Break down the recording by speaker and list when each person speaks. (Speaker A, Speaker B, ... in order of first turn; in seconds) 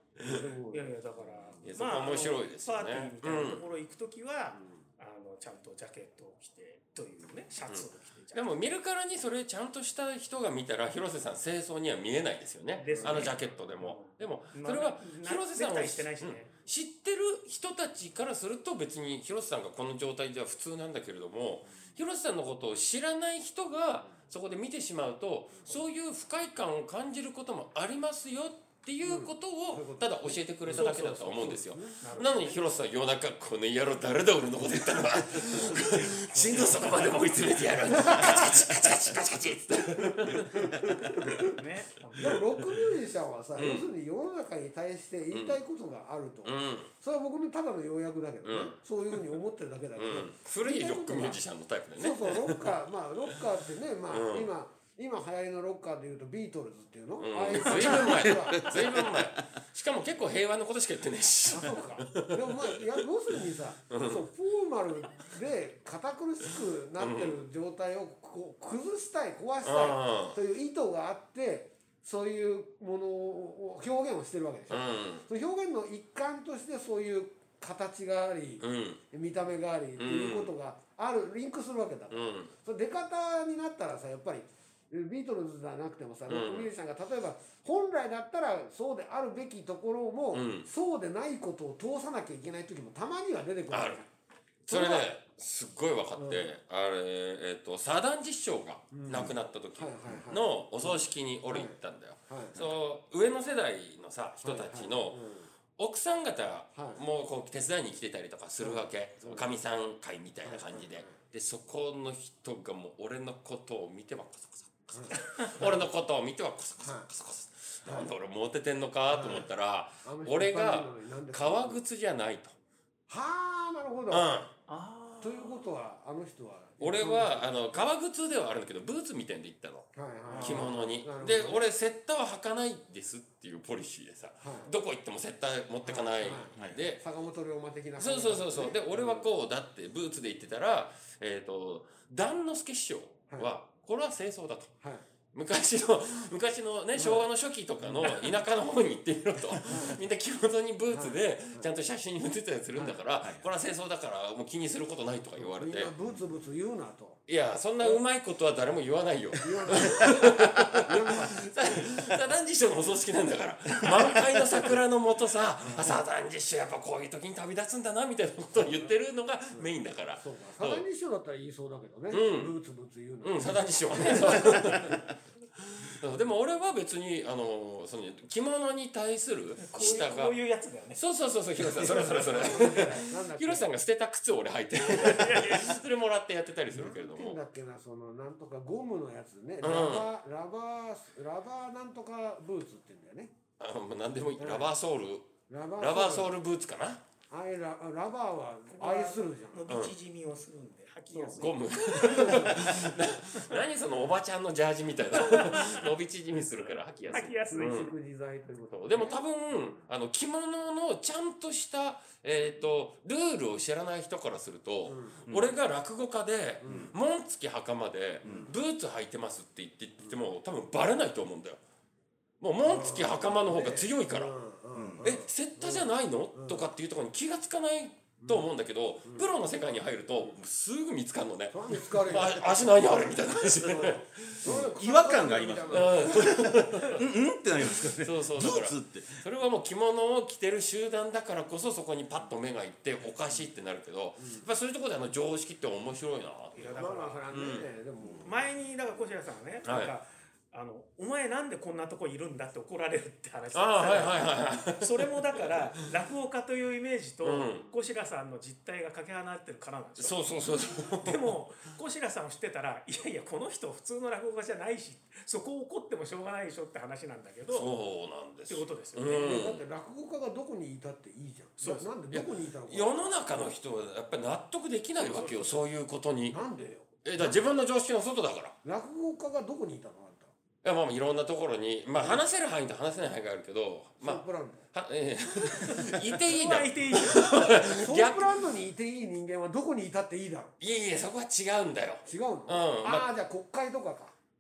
Speaker A: 0.2-1.0, 12.9-13.3, 29.0-32.4, 36.4-36.7, 37.9-38.5, 40.4-41.5, 42.2-51.4, 52.0-58.8, 61.5-94.1, 94.7-95.1, 96.2-96.5, 98.9-102.7, 104.4-105.5, 106.8-107.0, 108.6-109.5, 110.4-111.2, 114.9-115.8, 116.8-117.1, 117.8-118.1, 119.1-119.5, 120.0-121.8, 123.1-124.3, 125.2-127.5, 129.9-131.7, 134.4-134.7, 135.8-139.3, 146.9-147.3, 147.8-148.4, 149.7-150.0, 150.9-151.7, 155.4-157.2, 159.4-161.9, 165.6-166.0, 168.6-168.9, 169.5-175.0, 182.3-183.7, 186.7-193.3, 194.4-194.7, 195.5-196.3, 197.3-199.7, 202.2-202.6, 207.5-209.2, 214.9-215.3, 216.6-216.9, 222.7-226.7, 228.2-228.5, 229.1-229.3, 231.5-232.8, 233.6-236.5, 244.2-244.5, 246.8-248.4, 269.2-273.0, 275.0-275.6, 276.3-277.4, 278.6-280.3, 282.0-282.2, 284.0-284.7, 287.7-290.5, 292.1-294.1
Speaker B: 0.7-8.5, 12.8-16.5, 32.0-32.6, 41.4-42.4, 115.1-115.5, 124.7-125.7, 130.3-130.6, 179.6-181.0, 181.7-182.8, 184.9-185.7, 198.7-202.8, 205.2-205.9, 207.1-207.8, 246.6-247.2, 248.2-260.2, 261.0-267.7, 268.5-269.3, 271.6-271.9, 285.7-287.8
Speaker C: 1.6-3.6, 7.7-41.5, 43.6-43.9, 45.3-45.6, 46.4-46.9, 48.5-49.2, 50.0-52.7, 54.1-54.5, 57.2-63.0, 63.9-64.3, 67.0-67.4, 69.6-70.4, 74.7-75.3, 78.6-79.0, 80.0-80.5, 82.1-82.5, 86.3-86.7, 90.3-90.7, 93.7-94.0, 94.7-105.2, 105.8-122.5, 124.1-124.5, 126.8-137.0, 138.0-144.7, 145.3-155.9, 157.3-170.8, 172.1-172.5, 173.2-175.1, 175.7-180.4, 180.9-187.4, 189.6-190.1, 193.6-197.0, 199.7-199.9, 201.2-207.9, 208.7-221.6, 222.4-224.3, 225.0-234.7, 235.7-237.1, 237.6-246.8, 247.3-247.7, 249.7-249.9, 253.5-255.4, 257.2-257.7, 260.0-261.4, 267.5-269.6, 272.1-276.4, 277.0-278.6, 280.6-288.4, 290.6-293.1
Speaker D: 30.8-31.1, 57.8-59.2, 136.5-136.8, 153.2-153.5, 215.3-215.5, 216.7-216.9, 218.2-218.5, 224.8-225.1, 234.4-239.2